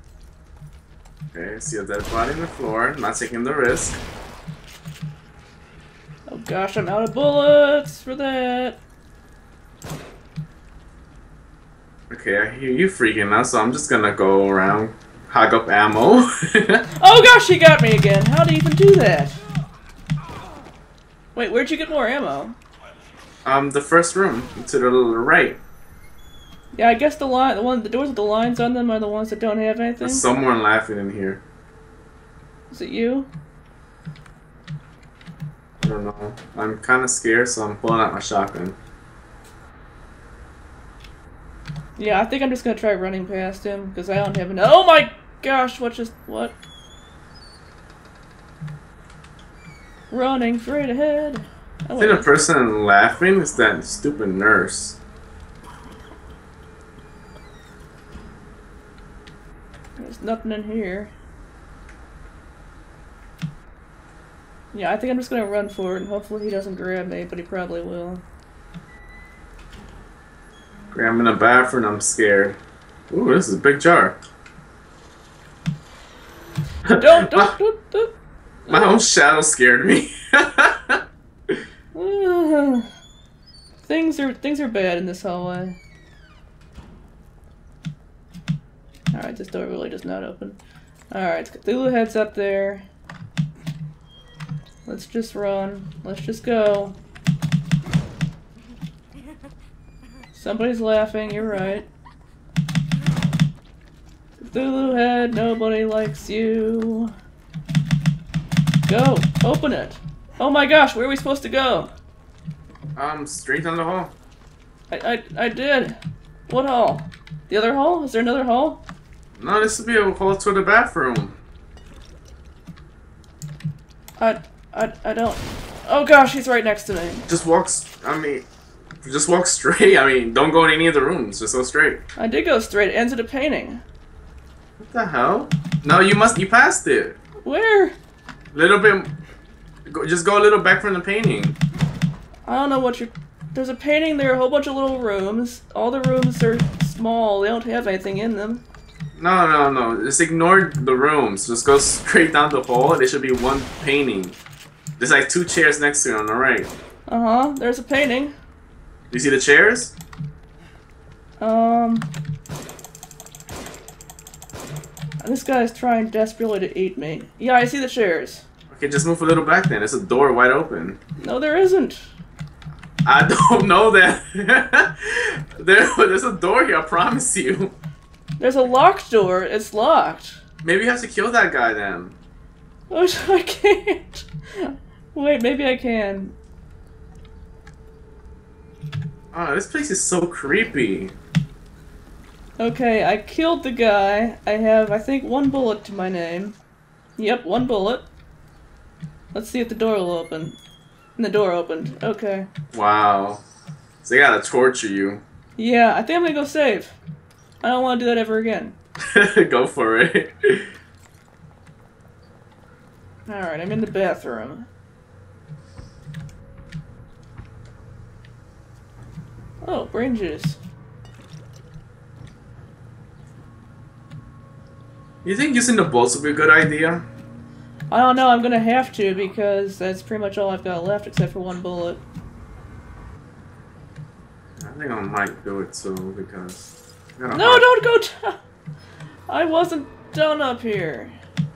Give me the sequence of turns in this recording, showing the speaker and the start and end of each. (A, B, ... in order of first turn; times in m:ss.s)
0:01.3-0:04.0 A
0:06.3-0:08.8 B
0:12.1-0:16.9 A
0:16.9-0:19.4 B
0:21.3-0:22.6 B
0:23.4-0:25.6 A
0:26.7-0:30.2 B
0:30.0-0:31.4 A
0:32.7-0:33.3 B
0:35.8-0:38.8 A
0:42.0-0:46.5 B
0:50.1-0:52.4 B
0:52.0-0:55.0 A
1:00.0-1:01.1 B
1:04.7-1:08.2 B
1:10.9-1:12.6 A
1:13.1-1:14.2 A
1:16.8-1:17.5 A
1:17.0-1:18.1 B
1:18.7-1:19.0 B
1:18.7-1:21.6 A
1:21.9-1:22.9 B
1:23.8-1:25.8 B
1:29.1-1:30.6 B
1:31.1-1:32.8 B
1:34.8-1:37.0 B
1:40.3-1:41.9 B
1:44.4-1:47.1 B
1:48.9-1:51.9 B
1:53.0-1:54.1 A
1:54.9-1:56.0 B
1:56.5-1:58.8 B
1:59.4-2:01.4 A
2:04.2-2:07.2 B
2:07.3-2:08.4 A
2:09.0-2:12.0 A
2:12.2-2:13.8 B
2:14.8-2:17.2 A
2:17.4-2:18.0 B
2:18.5-2:19.1 A
2:19.9-2:21.6 A
2:22.4-2:28.6 B
2:29.2-2:34.4 A
2:35.0-2:36.7 A
2:37.1-2:38.3 B
2:39.1-2:39.9 A
2:41.4-2:42.1 B
2:45.2-2:48.4 B
2:48.7-2:51.0 A
2:51.2-2:52.1 B
2:53.0-2:57.7 A
2:58.4-3:00.4 B
3:00.6-3:02.2 A
3:02.9-3:06.3 B
3:09.3-3:11.1 A
3:12.6-3:16.6 B
3:17.2-3:18.0 B
3:19.3-3:20.6 B
3:21.2-3:22.5 B
3:22.7-3:23.4 A
3:24.0-3:25.2 A
3:25.6-3:27.0 B
3:27.6-3:28.8 B
3:29.0-3:30.7 A
3:33.3-3:34.7 B
3:39.6-3:40.6 B
3:45.2-3:47.0 A
3:47.9-3:52.0 B
3:54.6-3:56.6 A
3:57.2-3:57.6 A
3:57.3-3:58.4 B
3:59.3-4:01.1 B